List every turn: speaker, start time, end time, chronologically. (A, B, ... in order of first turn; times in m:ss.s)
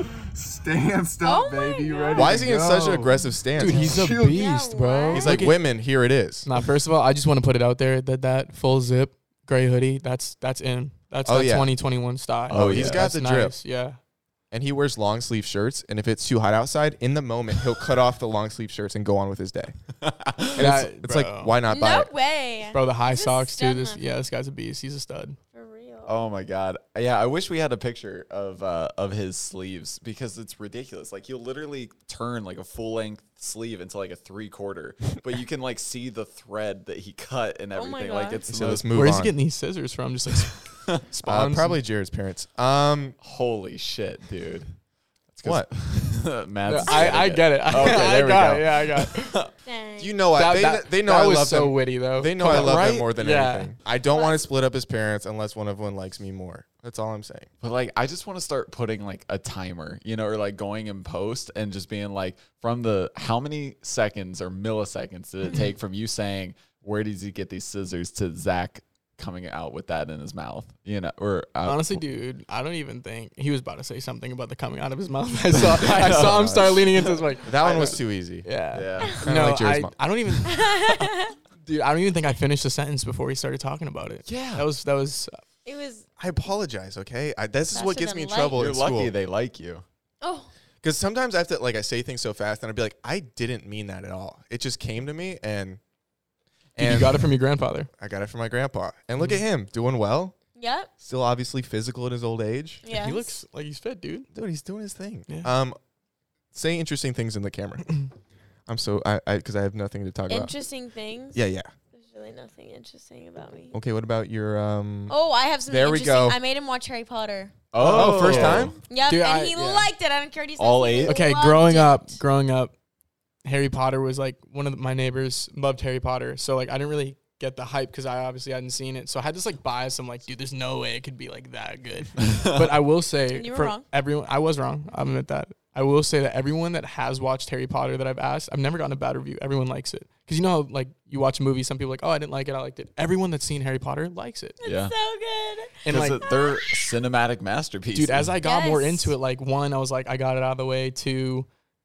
0:00.4-0:03.1 A
0:01.2-0:02.4 B
0:02.0-0:03.0 C
0:02.1-0:04.0 D
0:03.5-0:05.6 E
0:03.6-0:04.4 A
0:04.2-0:05.4 B
0:05.1-0:06.4 D
0:06.4-0:14.0 E
0:11.2-0:11.7 D
0:12.5-0:13.1 C
0:12.5-0:13.6 D
0:14.5-0:19.7 D
0:20.0-0:20.7 C
0:20.5-0:22.1 D
0:20.6-0:21.5 E
0:21.7-0:24.0 B
0:22.7-0:25.4 E
0:25.5-0:26.1 B
0:26.0-0:39.1 C
0:37.7-0:38.4 B
0:38.5-0:39.3 D
0:38.9-0:41.8 E
0:41.2-0:43.2 D
0:43.2-0:44.7 C
0:45.3-0:49.5 C
0:45.4-0:45.7 D
0:46.6-0:49.3 E
0:46.8-0:47.1 B
0:49.6-0:50.2 B
0:50.0-0:57.5 D
0:50.4-0:53.7 E
0:52.4-0:53.1 C
0:54.1-0:54.4 B
0:57.6-1:12.0 C
1:11.6-1:21.1 E
1:15.5-1:18.0 C
1:17.4-1:18.5 D
1:18.7-1:19.2 C
1:19.1-1:19.9 D
1:20.4-1:21.3 B
1:21.6-1:25.4 E
1:24.2-1:24.6 C
1:25.6-1:26.0 B
1:26.2-1:29.1 D
1:27.7-1:28.6 B
1:28.5-1:29.8 C
1:30.2-1:30.5 B
1:30.8-1:35.8 D
1:36.8-1:37.3 D
1:36.8-1:37.9 E
1:38.0-1:40.4 D
1:40.5-1:40.9 B
1:41.0-1:42.8 D
1:42.8-1:43.4 B
1:42.9-1:44.3 E
1:44.3-1:45.8 D
1:45.3-1:45.5 E
1:46.5-1:48.0 D
1:48.7-1:50.5 D
1:50.3-1:51.4 B
1:51.3-1:51.7 D
1:51.9-1:53.7 B
1:53.7-1:55.1 D
1:55.1-1:57.6 B
1:55.7-1:56.4 D
1:57.7-1:58.7 C
1:57.7-1:59.9 E
1:57.8-1:58.8 D
1:58.9-2:02.2 B
2:00.6-2:01.2 C
2:01.0-2:02.7 E
2:03.4-2:24.6 E
2:12.2-2:12.6 C
2:13.3-2:13.8 B
2:24.6-2:26.9 B
2:24.6-2:24.9 C
2:25.8-2:26.2 E
2:25.8-2:28.3 C
2:27.9-2:31.5 E
2:28.4-2:29.1 B